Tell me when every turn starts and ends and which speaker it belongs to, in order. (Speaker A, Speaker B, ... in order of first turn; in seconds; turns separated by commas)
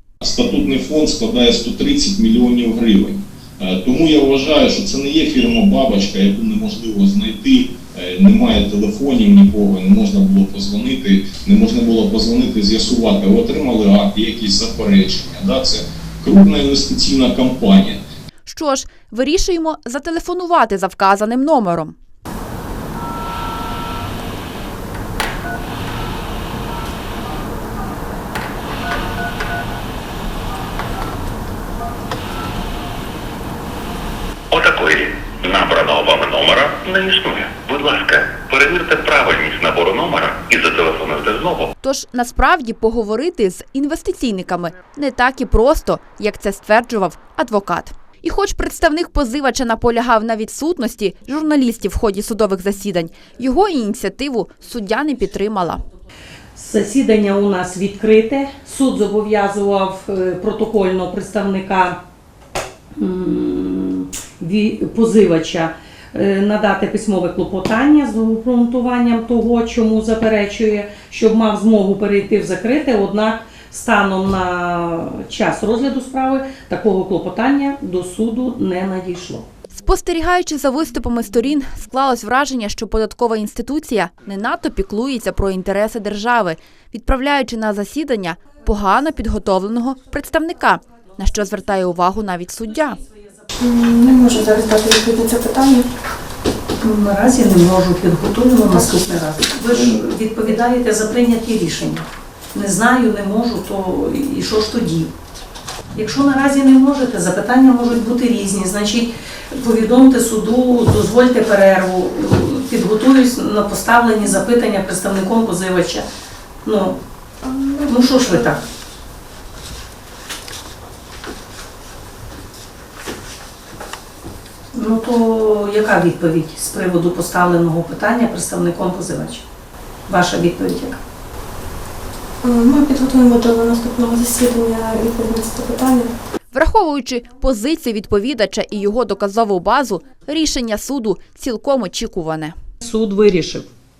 Speaker A: 0.2-18.0, Speaker B: 18.5-21.9, Speaker C: 34.5-41.7, Speaker B: 41.8-55.8, Speaker D: 56.6-62.0, Speaker D: 63.0-79.5, Speaker B: 79.7-93.0, Speaker E: 93.6-95.9, Speaker D: 96.8-105.1, Speaker D: 106.0-116.1, Speaker D: 116.7-117.0, Speaker E: 117.5-117.9, Speaker D: 117.8-118.6, Speaker D: 124.7-129.4, Speaker D: 130.1-131.0, Speaker E: 132.4-136.1, Speaker B: 136.5-142.5, Speaker D: 142.8-143.7